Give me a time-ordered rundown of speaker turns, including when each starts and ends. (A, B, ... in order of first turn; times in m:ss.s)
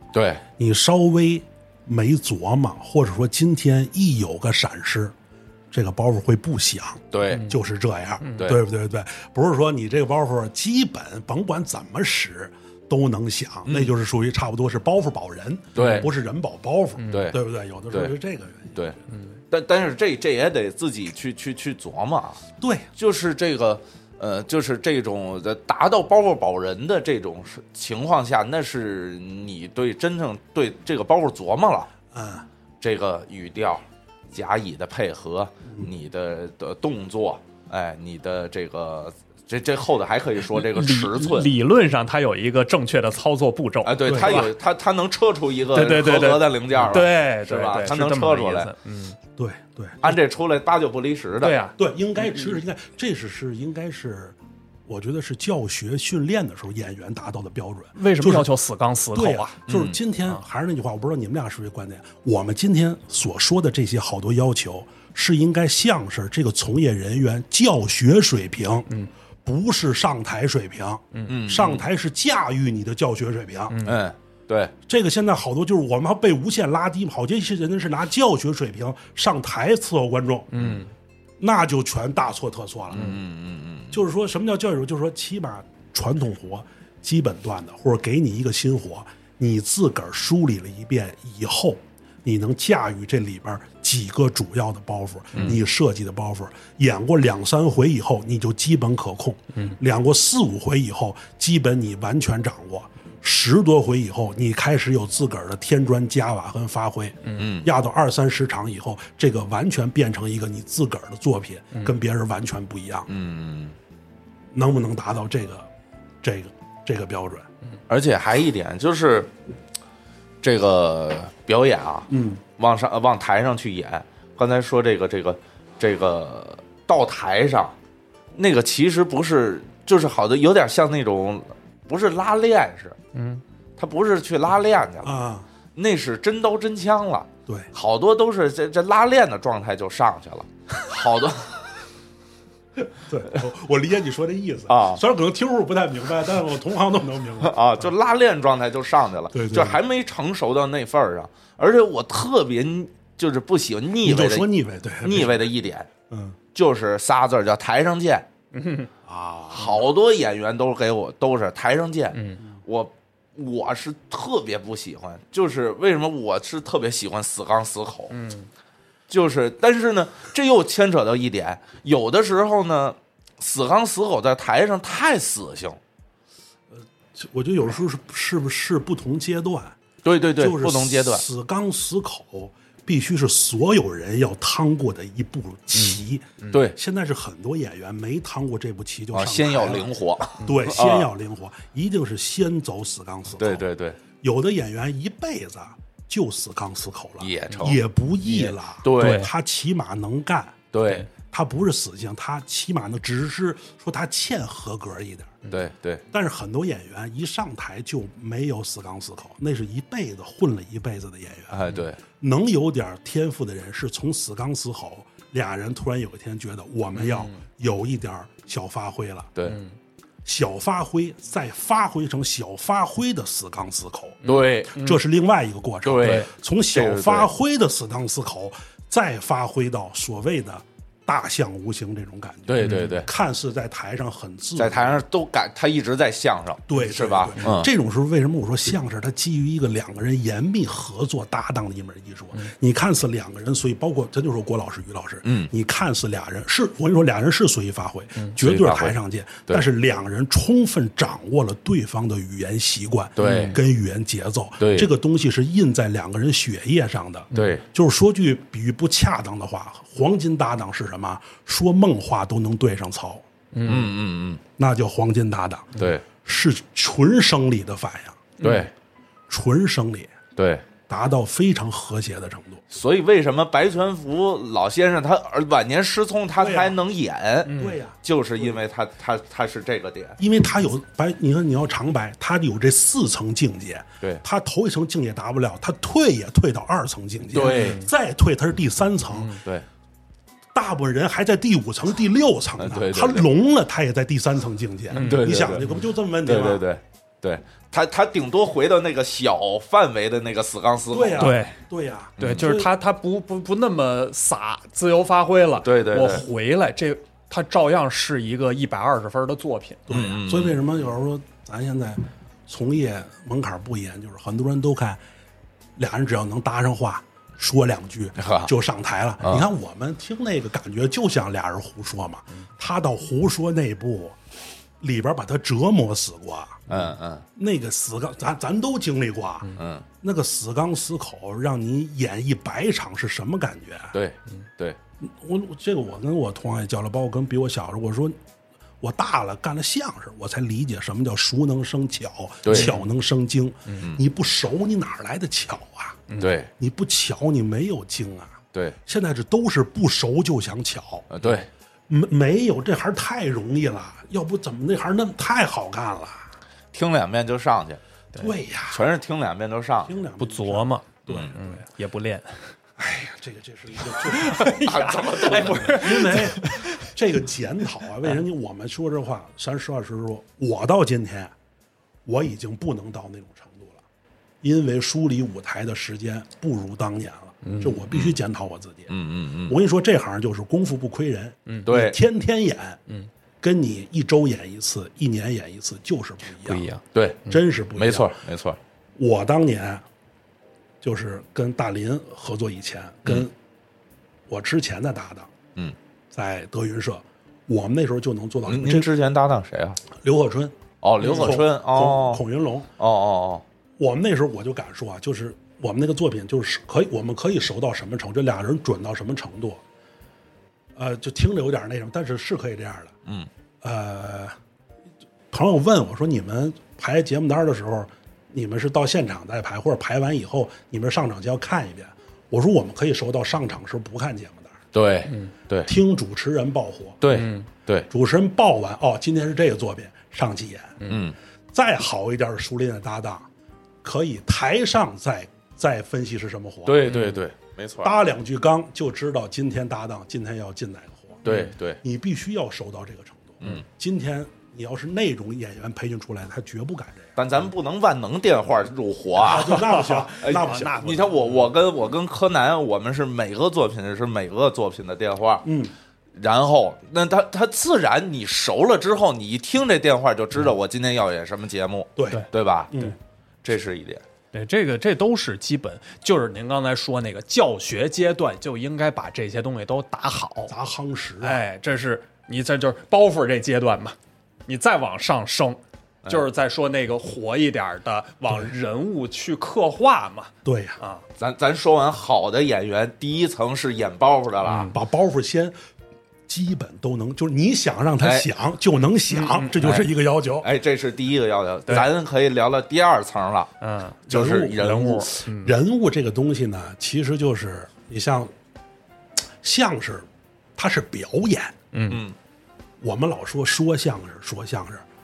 0:00.1-0:00.4 A
0:00.6-0:05.1 B
0:05.7-0:18.9 B
0:07.1-0:07.4 A
0:07.3-0:07.5 C
0:08.2-0:08.5 C
0:13.6-0:13.9 A
0:15.7-0:16.1 A
0:15.8-0:16.1 C
0:17.0-0:17.3 C
0:17.1-0:17.4 A
0:19.5-0:22.4 A
0:22.6-0:22.9 B
0:23.0-0:31.9 A
0:32.1-0:32.5 B
0:32.8-0:41.5 A
0:40.5-0:44.5 C
0:43.8-0:48.7 A
0:44.0-0:44.5 B
0:45.7-0:49.2 C
0:46.7-0:47.0 B
0:49.4-0:50.2 B
0:50.0-0:51.6 A
0:51.4-0:52.6 C
0:51.8-0:58.5 B
0:58.0-0:59.6 C
0:59.1-1:08.9 B
0:59.7-1:00.0 A
1:09.4-1:13.8 B
1:11.3-1:11.8 A
1:13.7-1:14.0 C
1:13.8-1:14.7 A
1:14.9-1:20.5 B
1:20.5-1:20.9 C
1:21.4-1:23.1 B
1:22.9-1:24.0 A
1:23.0-1:23.2 C
1:23.9-1:53.1 B
1:47.4-1:47.7 A
1:53.1-1:53.8 A
1:54.5-1:55.7 B
1:56.2-1:57.5 B
1:57.9-1:59.3 A
2:00.4-2:07.7 A
2:02.1-2:02.4 B
2:08.3-2:13.0 A
2:13.1-2:13.4 C
2:13.8-2:15.2 A
2:15.0-2:15.5 B
2:15.8-2:21.6 A
2:23.0-2:27.9 B
2:24.7-2:25.0 A
2:27.4-2:34.5 A
2:29.3-2:29.8 B
2:34.0-2:35.5 B
2:35.0-2:35.9 A
2:36.1-2:36.4 B
2:36.5-2:38.3 A
2:38.5-2:38.9 C
2:39.0-2:39.8 B
2:39.5-2:48.1 A
2:42.1-2:42.4 C
2:48.1-2:48.5 C
2:49.1-2:55.8 A
2:56.7-2:59.8 B
3:00.0-3:01.2 A
3:00.4-3:09.9 B
3:05.7-3:06.8 A
3:09.1-3:11.1 A
3:10.4-3:13.6 B
3:13.4-3:14.0 A
3:14.2-3:25.4 B
3:17.2-3:19.3 A
3:18.9-3:19.3 C
3:20.7-3:21.1 A
3:25.5-3:26.0 A
3:26.1-3:31.6 B
3:31.5-3:32.0 A
3:32.2-3:39.3 B
3:37.0-3:37.4 C
3:39.4-3:39.8 C
3:40.2-3:55.0 B
3:44.2-3:45.0 C
3:44.2-3:44.7 A
3:45.8-3:47.3 A
3:46.0-3:46.3 C
3:52.5-3:53.1 A
3:52.6-3:53.0 C
3:54.6-3:57.7 A
3:56.7-4:23.2 B
4:05.2-4:05.5 A
4:08.4-4:08.9 A
4:13.2-4:13.6 A
4:13.2-4:13.6 C
4:14.6-4:14.9 A
4:17.3-4:17.6 C
4:17.3-4:17.6 A
4:23.5-4:23.9 C
4:23.6-4:24.4 A
4:24.6-4:28.3 B
4:25.8-4:26.0 A
4:28.4-4:28.7 C
4:28.4-4:28.7 A
4:29.3-4:30.2 B
4:30.4-4:30.6 A
4:30.9-4:32.6 B
4:32.7-4:40.2 A
4:36.4-4:36.8 B
4:37.4-4:37.8 C
4:37.5-4:38.6 B
4:40.2-4:49.3 B
4:47.3-4:47.8 A
4:47.4-4:47.9 C
4:49.1-4:49.4 C
4:50.5-4:56.6 B
4:52.6-4:53.3 A
4:54.9-4:55.7 A
4:54.9-4:55.8 C
4:56.2-5:01.3 A
5:00.9-5:02.7 B
5:01.2-5:01.6 C
5:02.2-5:02.5 A
5:02.2-5:09.8 C
5:05.6-5:06.2 A
5:09.9-5:15.0 B
5:09.9-5:10.6 A
5:15.8-5:24.2 B
5:18.2-5:18.5 A
5:19.2-5:19.5 A
5:24.8-5:26.6 B
5:26.7-5:27.2 A
5:27.4-5:34.0 B
5:29.6-5:29.8 A
5:33.9-5:34.8 A
5:35.0-5:38.2 B
5:38.8-5:46.0 B
5:42.4-5:42.7 A
5:42.5-5:42.8 C
5:46.1-5:46.4 C
5:46.2-5:46.5 A
5:46.6-5:51.0 B
5:51.1-5:51.5 A
5:51.9-5:56.3 B
5:56.7-5:57.8 A
5:58.1-5:58.9 B
5:58.7-5:59.9 A
5:59.8-6:01.5 B
6:00.2-6:02.5 C
6:01.1-6:01.3 A
6:02.8-6:11.3 B
6:04.0-6:06.9 C
6:04.4-6:06.2 A
6:12.0-6:13.8 B
6:14.4-6:18.9 B
6:17.4-6:17.8 C
6:17.9-6:18.2 A
6:18.9-6:19.6 A
6:19.4-6:22.8 B
6:21.6-6:22.0 A
6:23.4-6:26.6 B
6:26.4-6:27.4 C
6:26.9-6:28.6 A
6:27.3-6:28.1 B
6:29.0-6:29.8 B
6:30.8-6:33.3 B
6:34.3-6:35.3 B
6:36.1-6:38.9 B
6:38.4-6:39.8 A
6:39.9-6:42.7 B
6:40.8-6:42.2 A
6:42.8-6:43.4 A
6:43.8-6:49.6 B
6:50.7-6:52.9 B
6:53.6-6:54.3 B
6:55.3-7:04.6 B
7:04.7-7:05.7 A
7:05.6-7:07.0 B
7:07.0-7:07.9 A
7:07.1-7:07.5 C
7:07.9-7:10.8 B
7:10.9-7:11.1 A
7:11.5-7:13.3 B
7:13.8-7:16.9 B
7:16.6-7:17.9 A
7:16.8-7:17.2 C
7:17.8-7:21.3 B
7:21.2-7:21.5 C
7:21.2-7:21.8 A
7:21.8-7:27.2 B
7:27.2-7:29.6 A
7:29.2-7:31.1 B
7:29.5-7:31.4 C
7:30.2-7:35.4 A
7:35.4-7:35.7 B
7:36.1-7:42.7 A
7:42.0-7:43.0 B
7:42.1-7:42.9 C
7:43.4-7:44.0 A
7:44.3-7:50.5 C
7:50.5-7:51.4 B
7:51.2-7:54.0 C
7:54.5-8:01.0 C
8:00.4-8:00.8 B
8:01.2-8:04.7 A
8:04.4-8:04.8 C
8:04.7-8:05.5 B
8:06.3-8:10.5 B
8:08.0-8:08.3 A
8:09.1-8:09.6 C
8:09.6-8:09.9 A
8:10.4-8:13.5 A
8:13.6-8:14.0 C
8:14.1-8:18.3 B
8:14.1-8:15.1 A
8:14.6-8:15.6 C
8:19.4-8:21.6 B
8:21.7-8:22.0 C
8:21.9-8:22.2 A
8:22.8-8:24.8 B